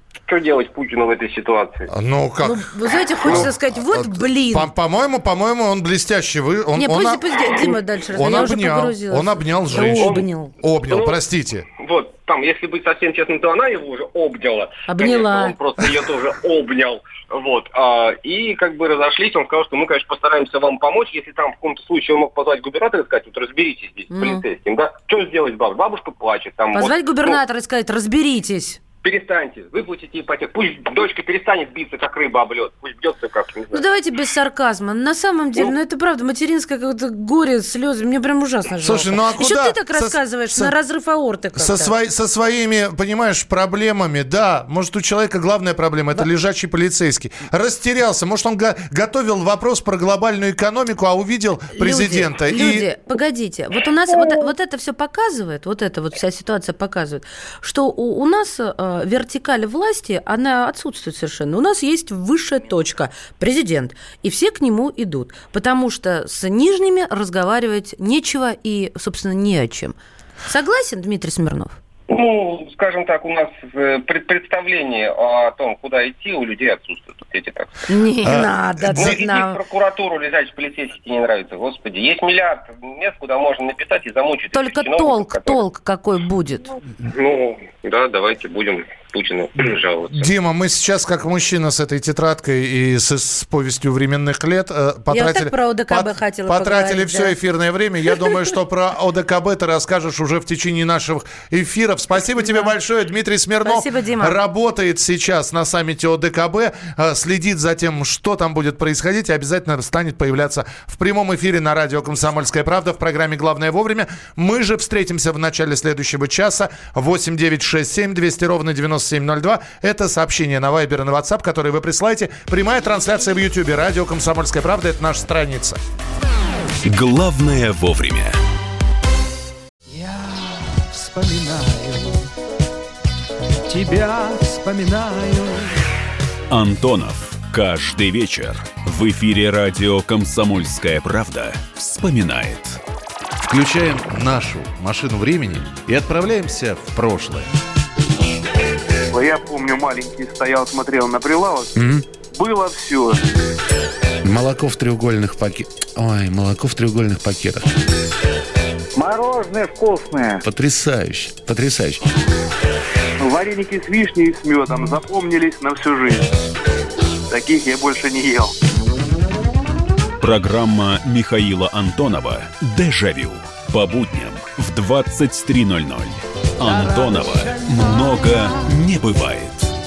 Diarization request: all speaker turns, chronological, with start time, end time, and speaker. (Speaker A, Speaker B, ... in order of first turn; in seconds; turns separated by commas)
Speaker A: 0.3-1.9, Speaker B: 1.9-11.7, Speaker C: 2.4-4.7, Speaker C: 6.8-10.5, Speaker A: 10.0-10.3, Speaker A: 10.9-11.2, Speaker A: 11.7-27.4, Speaker C: 14.9-15.6, Speaker C: 24.1-24.4, Speaker C: 26.7-28.8, Speaker A: 29.0-33.9, Speaker C: 33.7-41.9, Speaker B: 38.8-40.7, Speaker B: 41.6-52.9, Speaker C: 51.7-70.0, Speaker C: 70.5-71.8, Speaker A: 72.1-77.7, Speaker C: 77.9-79.6, Speaker B: 78.2-79.2, Speaker A: 79.0-85.6, Speaker C: 84.5-86.7, Speaker A: 87.0-90.3, Speaker B: 90.1-125.8, Speaker C: 95.1-97.4, Speaker C: 102.5-102.7, Speaker C: 103.6-104.4, Speaker D: 126.8-128.4, Speaker E: 129.9-132.1, Speaker E: 133.7-135.7, Speaker D: 136.5-142.8, Speaker B: 143.4-147.5, Speaker E: 149.1-151.7, Speaker B: 151.8-152.1, Speaker E: 152.3-153.2, Speaker B: 154.2-157.7, Speaker E: 159.0-160.4, Speaker B: 160.4-162.0, Speaker E: 163.2-166.3, Speaker E: 167.3-168.5, Speaker D: 170.2-179.7, Speaker E: 176.7-178.1